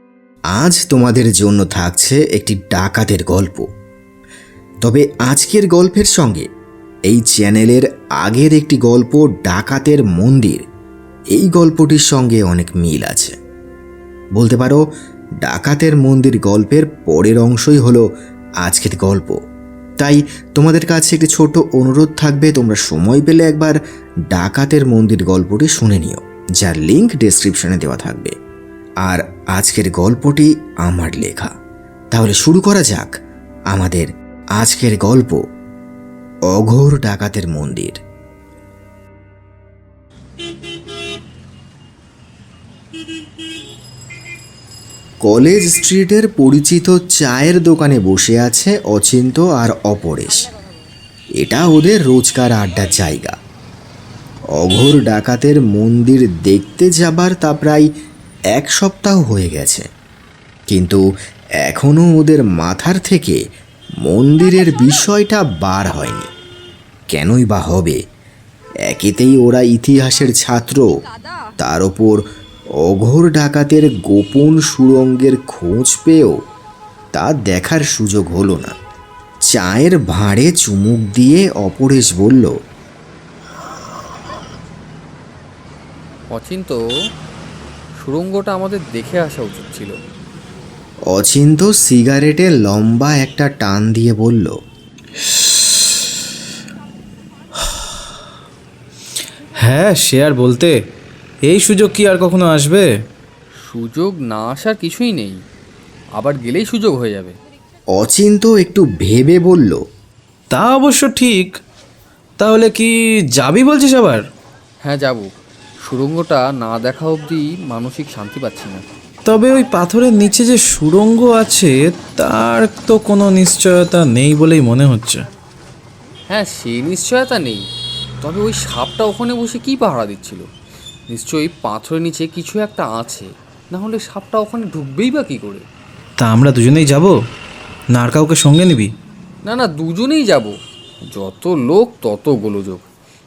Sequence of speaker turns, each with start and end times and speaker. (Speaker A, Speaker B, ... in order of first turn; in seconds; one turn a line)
Speaker A: 0.5-3.7
Speaker A: 4.8-6.5
Speaker A: 7.1-10.6
Speaker A: 11.3-13.4
Speaker A: 14.4-14.8
Speaker A: 15.4-18.1
Speaker A: 18.6-19.4
Speaker A: 20.0-23.8
Speaker A: 24.3-28.4
Speaker A: 29.0-31.5
Speaker A: 32.1-35.4
Speaker A: 36.5-38.0
Speaker A: 45.2-50.5
Speaker A: 51.4-53.4
Speaker A: 54.6-57.9
Speaker A: 58.5-59.9
Speaker A: 60.7-61.0
Speaker A: 61.6-63.4
Speaker A: 64.0-66.3
Speaker A: 67.1-68.0
Speaker A: 68.8-70.9
Speaker A: 71.6-72.2
Speaker A: 72.8-76.4
Speaker A: 77.1-78.8
Speaker A: 79.5-82.6
Speaker B: 86.3-86.8
Speaker B: 88.0-90.0
Speaker A: 91.1-94.6
Speaker C: 99.6-100.8
Speaker C: 101.5-102.9
Speaker B: 103.6-105.4
Speaker B: 106.2-107.4
Speaker A: 107.9-109.8
Speaker C: 110.5-111.5
Speaker C: 112.4-114.2
Speaker B: 114.8-115.3
Speaker B: 115.8-118.9
Speaker C: 119.3-125.2
Speaker B: 126.3-127.7
Speaker B: 128.2-130.5
Speaker B: 131.1-135.7
Speaker C: 136.2-137.2
Speaker C: 137.9-138.9
Speaker B: 139.4-140.6
Speaker B: 141.1-142.8